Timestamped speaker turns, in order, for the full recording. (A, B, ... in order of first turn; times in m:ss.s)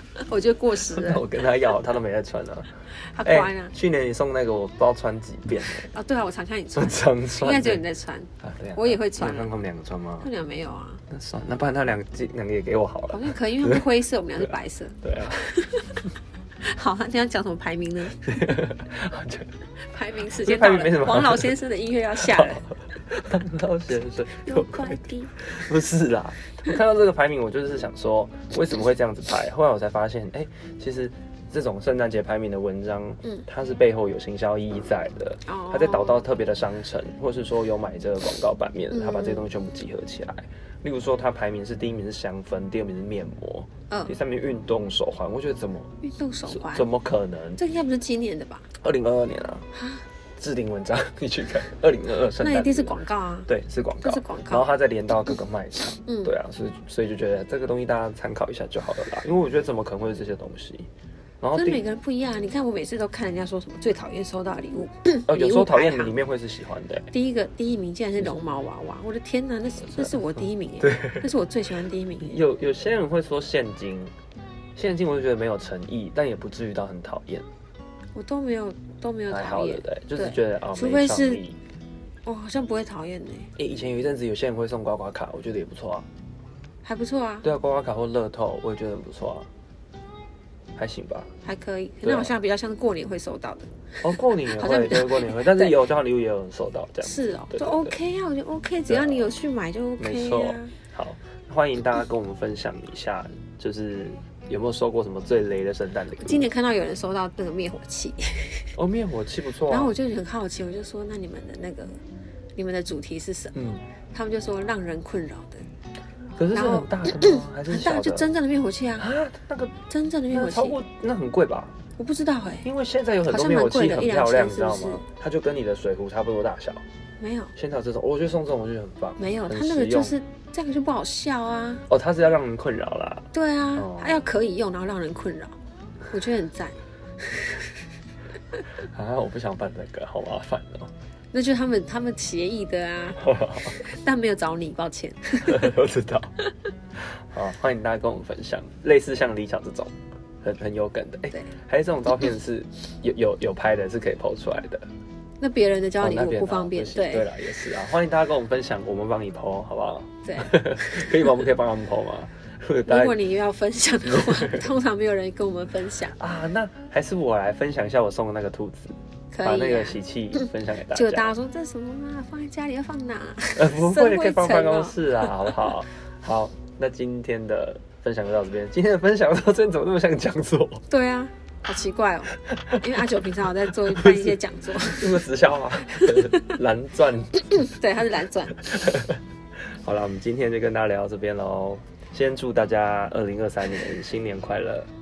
0:00.2-0:01.3 A
0:00.8-0:05.9 B
0:03.1-0:03.7 A
0:05.8-0:09.5 A
0:06.8-0:07.8 B
0:08.4-0:10.3 B
0:10.2-0:11.0 A
0:11.1-0:13.8 B
0:13.1-0:16.0 A
0:15.0-0:15.5 B
0:16.6-0:18.5 A
0:18.2-0:19.5 B
0:19.8-0:22.6 A
0:20.4-0:21.6 B
0:22.2-0:47.6 B
0:24.4-0:25.4 A
0:35.5-0:36.3 A
0:38.9-0:39.5 A
0:43.9-0:44.2 A
0:46.0-0:46.9 A
0:47.6-0:48.7 A
0:48.8-0:49.7 B
0:49.7-0:50.0 A
0:50.4-1:00.9 B
0:52.4-0:53.5 A
0:54.0-0:54.7 A
0:56.1-0:56.3 A
1:01.4-1:01.8 B
1:01.6-1:06.1 A
1:05.3-1:07.1 B
1:07.1-1:12.4 A
1:09.9-1:11.3 B
1:12.2-1:14.1 B
1:14.8-1:17.5 B
1:18.1-1:21.4 A
1:19.3-1:21.6 B
1:22.2-1:23.5 A
1:23.6-1:26.1 B
1:26.8-1:27.5 A
1:27.4-1:29.5 B
1:30.8-1:31.3 B
1:31.4-1:35.8 A
1:32.0-1:32.3 B
1:34.0-1:38.0 B
1:37.0-1:40.7 A
1:38.9-1:39.3 B
1:40.0-1:46.5 B
1:46.2-1:48.7 A
1:48.8-1:49.9 B
1:49.7-1:52.0 A
1:52.6-1:53.5 A
1:53.6-1:53.8 B
1:54.1-1:55.7 A
1:56.4-1:58.3 B
1:56.5-1:59.1 A
1:59.0-1:59.8 B
1:59.9-2:00.8 A
2:00.3-2:01.8 B
2:02.0-2:02.6 A
2:02.6-2:06.8 B
2:03.3-2:05.0 A
2:07.2-2:07.5 A
2:07.6-2:10.1 B
2:09.2-2:11.8 A
2:11.9-2:14.2 B
2:13.3-2:15.6 A
2:16.1-2:17.8 A
2:18.8-2:20.9 B
2:21.3-2:25.8 A
2:23.2-2:23.8 B
2:25.4-2:26.4 B
2:27.1-2:34.9 B
2:35.4-2:37.3 A
2:36.0-2:43.2 B
2:40.2-2:41.4 A
2:42.9-2:46.2 A
2:44.0-2:44.7 B
2:46.2-2:51.3 B
2:49.3-2:55.5 A
2:53.6-3:00.9 B
3:00.9-3:05.2 A
3:02.5-3:02.8 B
3:03.8-3:07.6 B
3:05.9-3:06.6 A
3:07.4-3:08.6 A
3:08.6-3:09.2 B
3:09.8-3:14.9 B